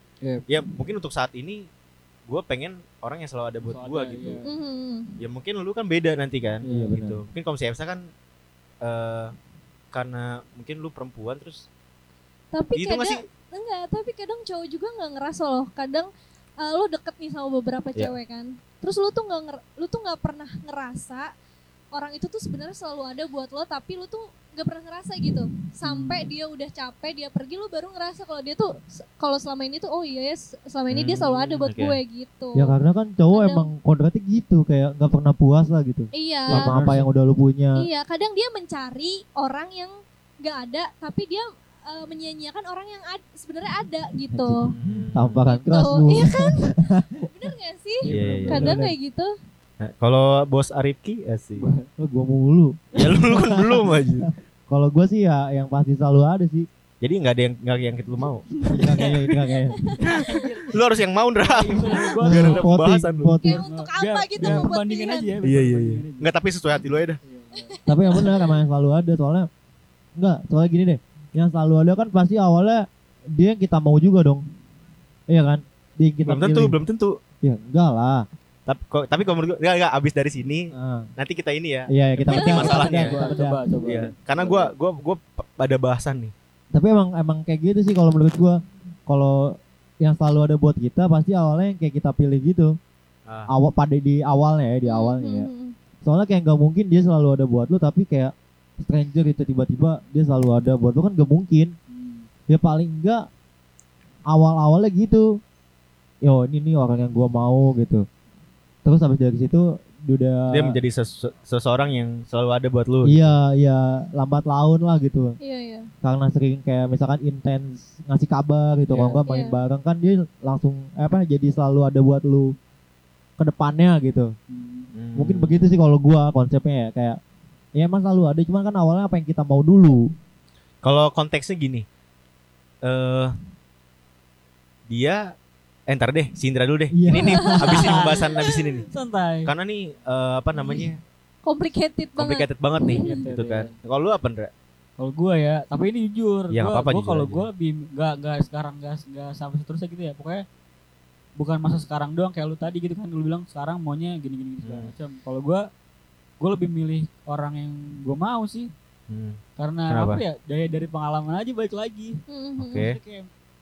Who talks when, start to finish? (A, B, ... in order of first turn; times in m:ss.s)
0:00.5-0:01.7 A
0:02.3-0:04.4 A
0:03.6-0:04.4 B
0:04.4-0:05.1 C
0:05.2-0:08.1 A
0:06.6-0:07.0 B
0:06.6-0:07.2 D
0:08.8-0:09.3 A
0:09.9-0:11.7 A
0:12.5-0:16.1 C
0:12.7-0:13.2 A
0:16.6-0:21.3 C
0:21.9-0:32.7 C
0:30.9-0:32.0 A
0:32.6-0:37.9 D
0:33.3-0:33.7 C
0:36.2-0:36.7 C
0:36.5-0:37.1 B
0:37.8-0:44.7 C
0:44.3-0:47.3 D
0:44.7-0:45.4 A
0:45.5-0:49.3 C
0:48.0-0:48.8 B
0:48.1-0:48.7 A
0:48.4-0:48.9 D
0:49.8-0:51.6 A
0:51.6-0:51.9 B
0:52.0-0:56.7 D
0:53.0-0:54.3 A
0:57.0-0:59.2 A
0:58.7-0:59.1 B
0:58.7-0:59.8 D
0:59.8-1:00.4 C
1:00.0-1:00.8 B
1:00.0-1:03.4 A
1:01.4-1:02.7 B
1:02.2-1:03.6 D
1:03.4-1:05.3 C
1:03.4-1:06.3 B
1:05.4-1:07.2 A
1:07.2-1:07.7 B
1:07.6-1:08.5 C
1:07.9-1:09.5 D
1:10.2-1:14.4 D
1:15.3-1:16.8 D
1:16.2-1:17.2 A
1:17.4-1:18.2 D
1:18.6-1:23.1 A
1:20.7-1:21.1 D
1:21.9-1:23.6 D
1:22.4-1:22.7 C
1:22.5-1:24.7 B
1:23.8-1:26.3 A
1:26.7-1:32.7 D
1:33.3-1:33.5 A
1:33.5-1:35.5 D
1:34.8-1:35.7 C
1:36.0-1:41.7 D
1:41.9-1:42.3 B
1:42.5-1:43.2 D
1:44.3-1:45.4 D
1:46.2-1:48.0 D
1:48.8-1:50.8 D
1:50.5-1:53.3 A
1:53.0-1:55.4 D
1:55.4-1:55.9 C
1:56.0-2:02.5 D
1:58.9-1:59.2 B
1:59.3-1:59.6 C
2:03.4-2:04.3 D
2:04.5-2:04.9 B
2:04.9-2:05.6 A
2:05.2-2:07.2 D
2:07.8-2:10.1 D
2:10.8-2:11.8 A
2:12.8-2:13.3 A
2:14.9-2:15.3 A
2:15.9-2:18.9 A
2:16.9-2:17.9 D
2:17.1-2:17.9 C
2:17.7-2:18.2 B
2:18.9-2:19.5 B
2:19.4-2:21.0 A
2:21.4-2:23.1 C
2:22.2-2:24.5 A
2:23.0-2:23.7 B
2:25.0-2:30.4 B
2:26.5-2:27.5 A
2:31.4-2:35.7 B
2:34.6-2:34.9 A
2:36.4-2:38.7 B
2:39.1-2:40.2 A
2:39.6-2:42.2 B
2:42.3-2:42.9 C
2:42.6-2:43.0 A
2:42.7-2:43.3 B